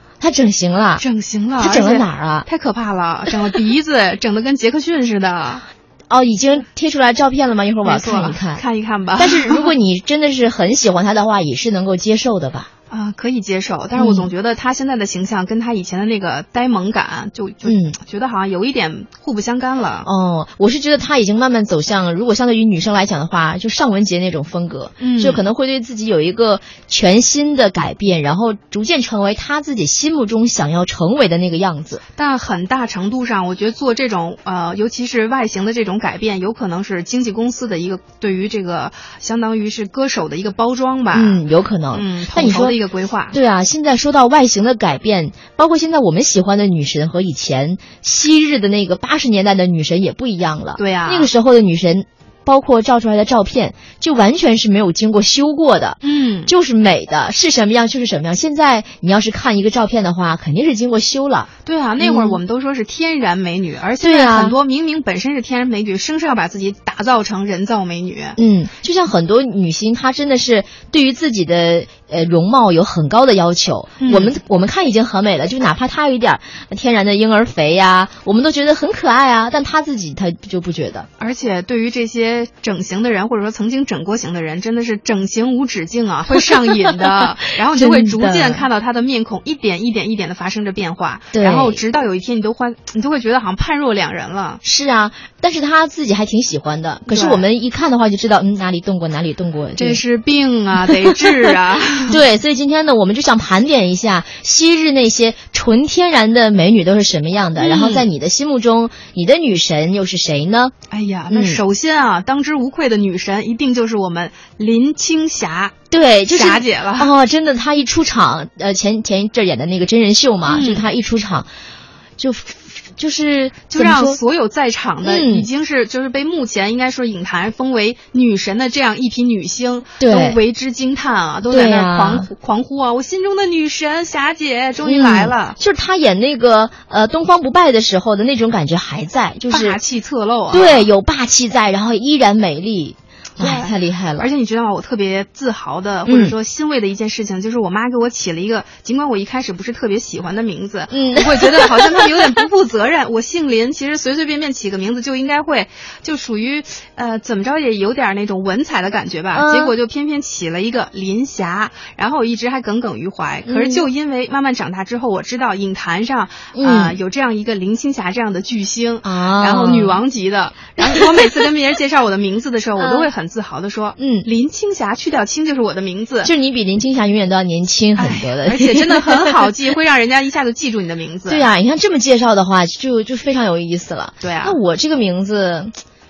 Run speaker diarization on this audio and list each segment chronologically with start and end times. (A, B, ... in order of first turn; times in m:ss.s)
0:00.2-0:01.0 A
0:01.0-0:05.6 B
0:01.6-0:02.5 A
0:06.1-0:08.6 A
0:07.8-0:09.7 B
0:09.2-0:12.7 A
0:12.9-0:20.1 B
0:14.0-0:14.3 A
0:17.6-0:18.0 A
0:20.0-0:32.0 A
0:25.0-0:25.4 B
0:32.2-0:43.4 B
0:41.1-0:42.8 A
0:43.3-1:02.4 A
0:50.8-0:51.3 B
0:56.0-0:56.5 B
1:01.6-1:08.4 B
1:04.0-1:04.5 A
1:08.4-1:21.1 A
1:14.0-1:14.3 B
1:21.2-1:34.6 B
1:27.7-1:28.6 A
1:31.3-1:31.8 A
1:34.6-1:40.0 A
1:37.1-1:37.4 B
1:39.8-1:42.2 B
1:42.1-1:50.7 A
1:47.6-1:48.1 B
1:50.9-1:55.7 B
1:51.3-1:51.6 A
1:55.9-2:01.5 A
1:56.3-1:57.1 B
2:00.4-2:00.9 B
2:02.2-2:04.2 A
2:03.7-2:15.6 B
2:05.0-2:05.5 A
2:10.0-2:10.4 A
2:11.5-2:12.3 A
2:14.8-2:19.8 A
2:19.5-2:20.9 B
2:20.5-2:24.2 A
2:23.4-2:56.3 B
2:26.1-2:26.3 A
2:30.9-2:32.2 A
2:39.3-2:39.7 A
2:43.4-2:43.9 A
2:46.5-2:47.0 A
2:49.0-2:50.0 A
2:52.8-2:53.1 A
2:54.0-2:54.3 A
2:56.2-2:59.5 A
2:58.0-3:01.4 B
3:01.3-3:05.7 A
3:04.2-3:04.6 B